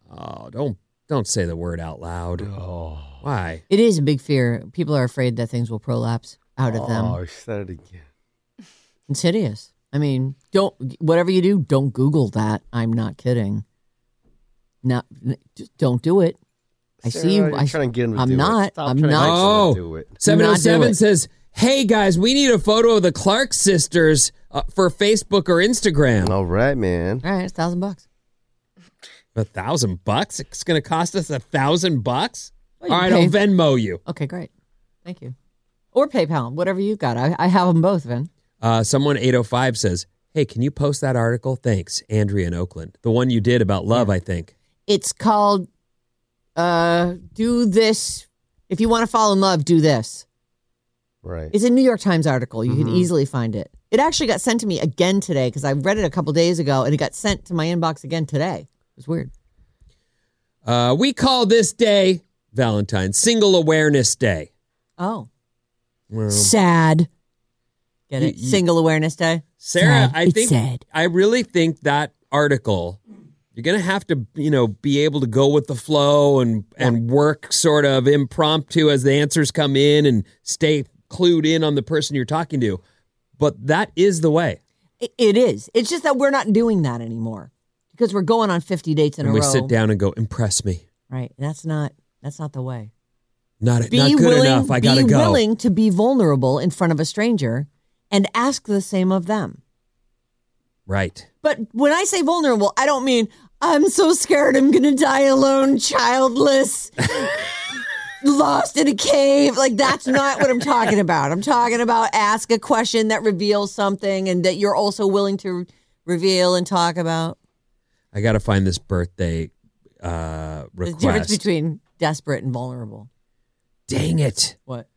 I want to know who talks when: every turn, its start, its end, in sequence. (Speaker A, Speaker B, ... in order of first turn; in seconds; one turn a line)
Speaker A: 0.1-2.5
Speaker B: 2.4-3.2
Speaker A: 3.2-3.6
Speaker C: 3.7-7.2
Speaker B: 6.7-8.0
Speaker C: 9.1-13.6
Speaker C: 14.8-16.4
Speaker B: 17.0-20.2
Speaker C: 17.0-19.6
Speaker A: 19.2-26.3
Speaker C: 20.2-21.0
Speaker B: 26.2-27.2
Speaker C: 27.2-28.0
Speaker A: 29.3-34.0
Speaker C: 32.8-33.4
Speaker C: 34.0-34.5
Speaker C: 35.0-35.3
Speaker C: 35.9-38.3
Speaker A: 38.6-44.5
Speaker C: 44.9-45.7
Speaker C: 46.5-50.2
Speaker B: 51.2-51.5
Speaker C: 51.5-59.3
Speaker B: 52.7-53.1
Speaker A: 60.6-64.5
Speaker C: 65.0-65.3
Speaker A: 66.1-66.5
Speaker C: 66.3-67.1
Speaker C: 68.1-70.8
Speaker A: 68.2-68.6
Speaker A: 69.6-73.0
Speaker A: 73.5-82.8
Speaker A: 83.4-84.6
Speaker C: 85.0-89.7
Speaker A: 89.2-90.8
Speaker C: 91.1-92.9
Speaker A: 93.6-95.4
Speaker C: 93.9-99.6
Speaker A: 100.9-101.3
Speaker C: 101.4-107.3
Speaker C: 108.2-117.4
Speaker A: 118.1-119.5
Speaker A: 120.0-121.4
Speaker C: 120.8-123.1
Speaker A: 123.9-124.5